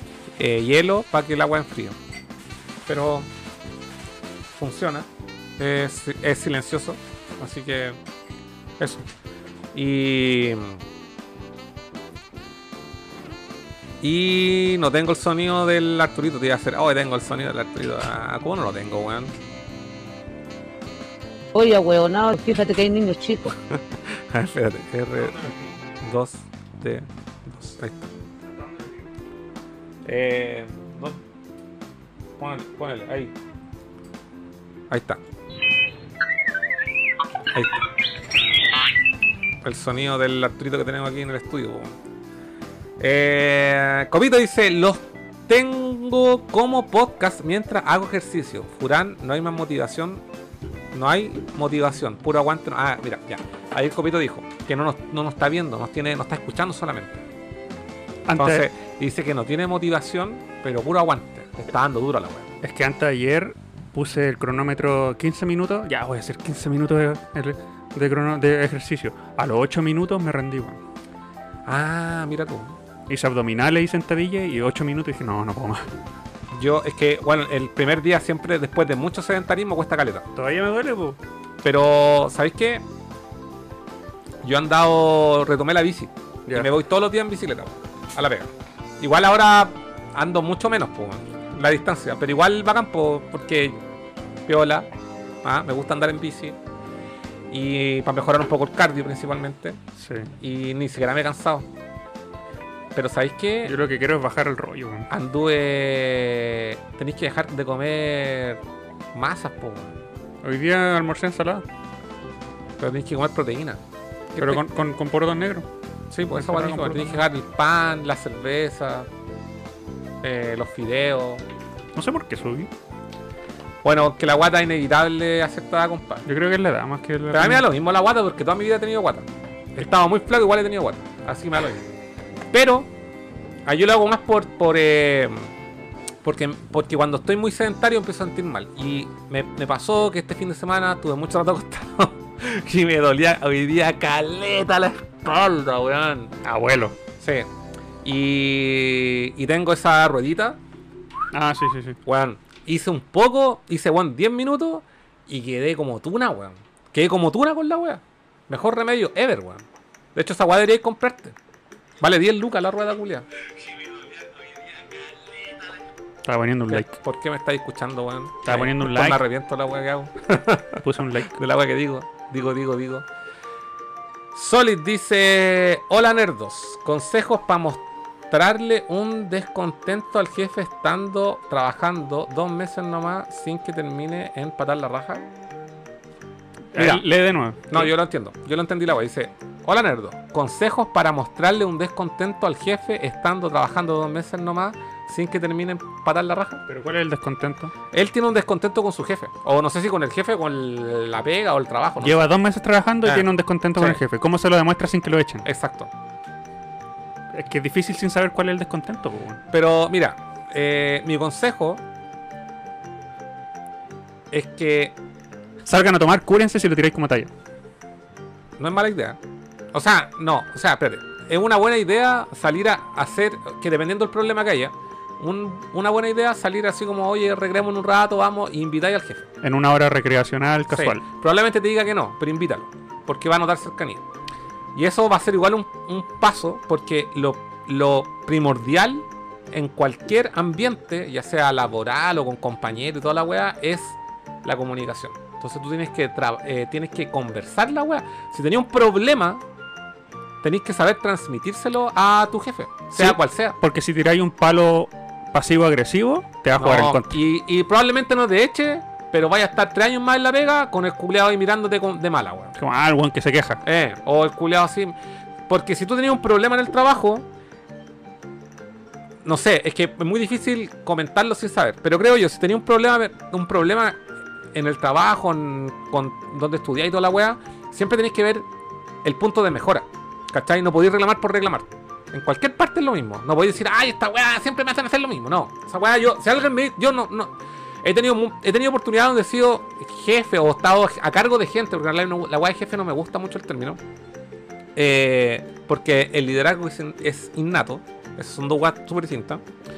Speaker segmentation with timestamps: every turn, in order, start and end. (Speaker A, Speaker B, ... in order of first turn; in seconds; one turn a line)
Speaker A: 0.4-1.9
Speaker A: 2.9-3.3
Speaker A: 4.5-5.1
Speaker A: 5.6-8.0
Speaker A: 8.8-9.1
Speaker A: 9.7-10.8
Speaker A: 14.0-19.3
Speaker B: 21.5-23.5
Speaker A: 23.7-28.1
Speaker A: 30.1-31.2
Speaker A: 32.4-33.3
Speaker A: 34.9-35.2
Speaker A: 37.5-37.8
Speaker A: 39.6-41.9
Speaker A: 43.0-50.2
Speaker A: 50.9-57.2
Speaker C: 58.3-58.6
Speaker A: 58.4-62.5
Speaker C: 62.6-70.8
Speaker A: 71.7-72.8
Speaker C: 73.1-75.9
Speaker A: 76.5-80.3
Speaker C: 80.3-81.2
Speaker A: 81.6-82.8
Speaker A: 84.4-93.8
Speaker A: 94.5-94.9
Speaker A: 95.4-96.5
Speaker A: 97.5-99.8
Speaker C: 100.0-100.3
Speaker A: 100.4-101.7
Speaker A: 103.0-103.7
Speaker C: 103.7-105.1
Speaker A: 105.1-108.6
Speaker A: 109.1-109.9
Speaker C: 110.4-111.6
Speaker A: 112.8-113.8
Speaker A: 114.3-114.6
Speaker C: 114.4-115.7
Speaker A: 116.1-119.1
Speaker C: 116.3-117.2
Speaker A: 120.2-121.4
Speaker C: 122.0-122.7
Speaker A: 123.8-126.3
Speaker C: 126.2-127.6
Speaker A: 127.3-131.9
Speaker A: 132.5-132.9
Speaker A: 133.7-135.5
Speaker A: 136.2-146.3
Speaker C: 146.4-146.9
Speaker A: 147.2-147.5
Speaker A: 148.0-150.6
Speaker C: 151.3-152.0
Speaker A: 152.1-159.6
Speaker A: 160.1-161.3
Speaker A: 162.0-163.2
Speaker C: 166.2-167.0
Speaker A: 166.7-173.1
Speaker C: 168.4-169.2
Speaker C: 170.8-171.3
Speaker A: 174.3-185.3
Speaker C: 186.7-187.9
Speaker A: 186.8-187.0
Speaker A: 187.7-196.6
Speaker C: 196.7-197.7
Speaker A: 197.9-202.2
Speaker C: 202.0-205.4
Speaker A: 203.1-204.0
Speaker A: 205.4-205.9
Speaker C: 207.3-209.4
Speaker A: 209.5-211.8
Speaker A: 214.3-214.9
Speaker C: 215.6-217.3
Speaker A: 218.6-219.2
Speaker A: 219.7-229.3
Speaker C: 229.4-231.0
Speaker A: 230.7-234.0
Speaker A: 234.7-249.4
Speaker A: 250.4-253.6
Speaker C: 252.9-257.1
Speaker A: 256.6-262.6
Speaker C: 262.6-263.6
Speaker A: 263.6-264.9
Speaker A: 265.5-267.3
Speaker A: 269.2-274.0
Speaker A: 274.5-278.4
Speaker A: 279.0-287.3
Speaker A: 287.8-293.8
Speaker A: 294.8-299.4